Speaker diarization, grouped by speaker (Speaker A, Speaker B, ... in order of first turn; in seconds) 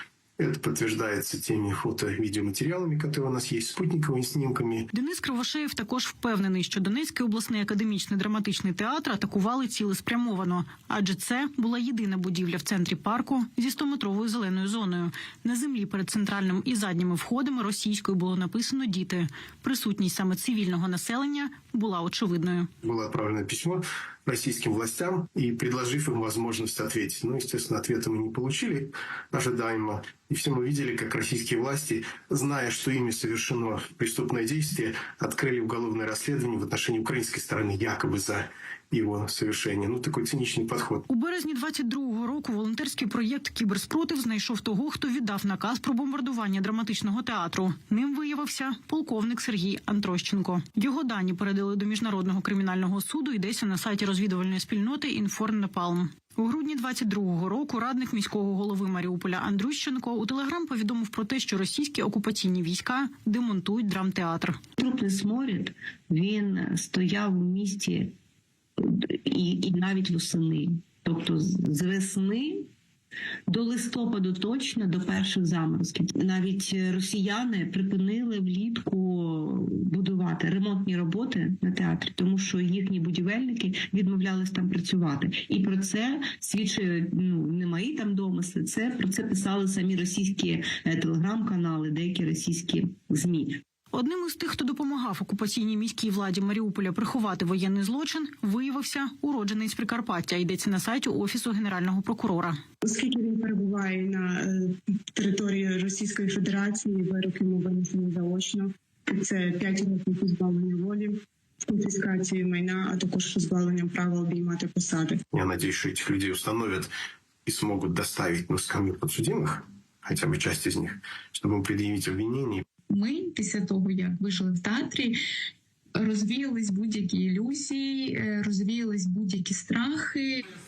Speaker A: 0.4-4.9, 22.8-41.0, 115.3-116.9, 117.5-122.6
Speaker B: 4.9-22.7, 41.1-64.6, 93.9-102.6
Speaker C: 64.8-68.1, 68.8-72.7, 73.5-93.6
Speaker D: 102.8-115.2
Speaker E: 122.9-125.1, 125.9-130.3